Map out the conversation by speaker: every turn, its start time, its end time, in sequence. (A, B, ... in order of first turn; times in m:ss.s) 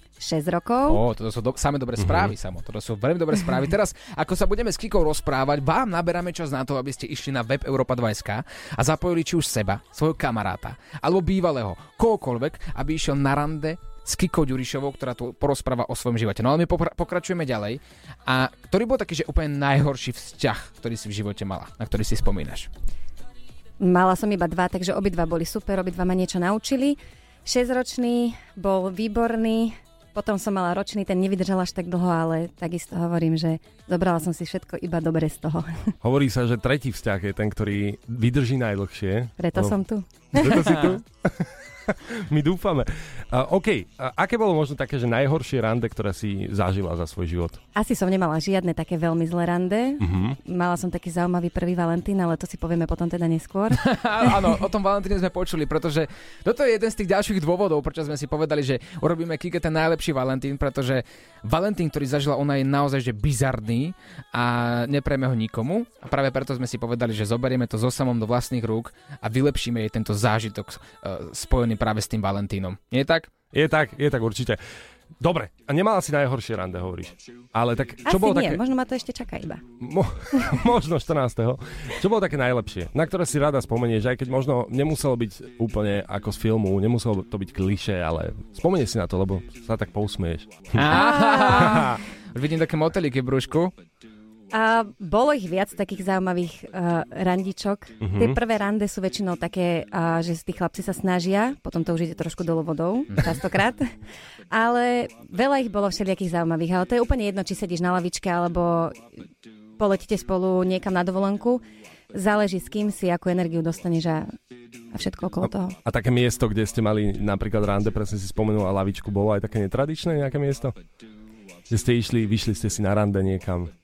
0:00.2-0:01.0 A
0:00.9-0:22.7 B
0:02.0-0:02.3 C
0:23.8-0:35.9 A
0:36.0-0:39.8 C
0:39.4-0:40.9 A
0:40.4-0:47.6 C
0:47.8-0:53.8 A
0:50.0-0:50.4 C
0:53.8-1:13.3 B
1:13.5-1:14.6 C
1:15.2-1:18.6 C
1:18.1-1:19.6 A
1:19.8-1:31.0 C
1:30.8-1:33.7 B
1:30.9-1:31.9 A
1:31.5-1:32.0 C
1:34.5-1:43.9 A
1:38.0-1:38.4 C
1:44.5-1:49.1 A
1:49.8-1:54.3 A
1:54.9-1:55.8 A
1:55.4-2:00.8 C
2:01.7-2:03.7 C